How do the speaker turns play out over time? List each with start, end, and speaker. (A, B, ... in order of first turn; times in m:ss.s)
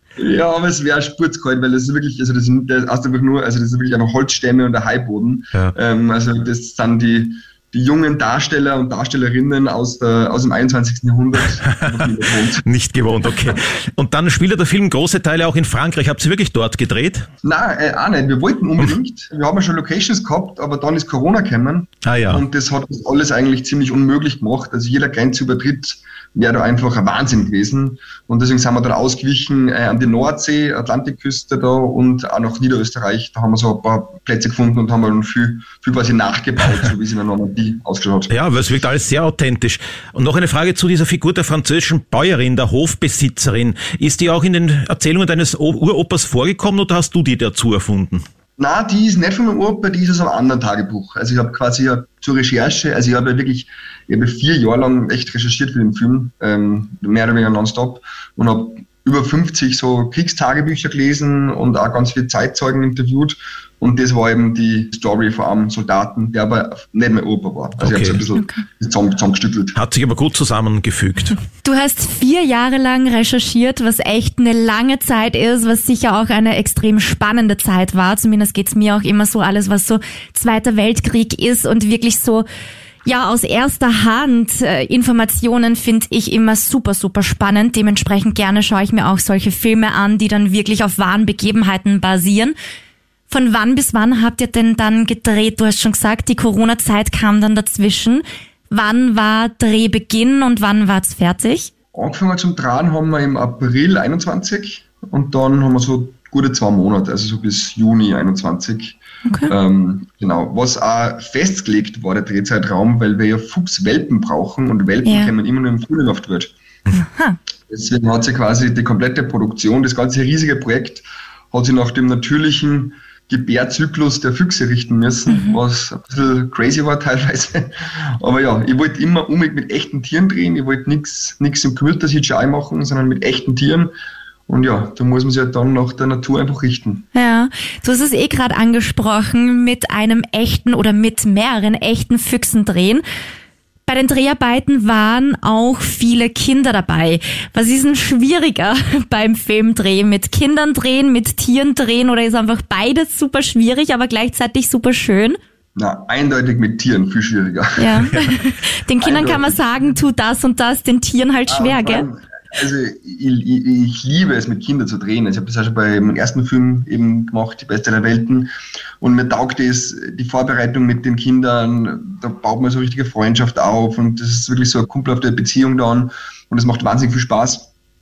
0:00.2-0:12.6 A
0:11.7-0:12.1 B
0:12.6-0:17.2 B
0:17.4-0:38.3 A
0:22.0-0:22.4 B
0:38.3-0:48.2 B
0:48.6-1:09.8 A
1:07.8-1:08.2 B
1:08.3-1:08.6 C
1:09.8-1:11.4 B
1:11.6-1:22.4 C
1:23.0-1:32.5 C
1:33.3-1:41.7 C
1:41.9-1:56.5 A
1:49.2-1:49.5 C
1:55.0-1:55.3 C
1:56.9-1:57.4 C
1:57.7-2:13.9 A
2:05.3-2:05.6 C
2:14.5-2:17.0 A
2:17.1-2:23.0 C
2:23.9-2:35.4 C
2:35.8-2:38.1 A
2:37.8-2:42.0 C
2:39.0-2:40.0 A
2:41.5-2:57.7 A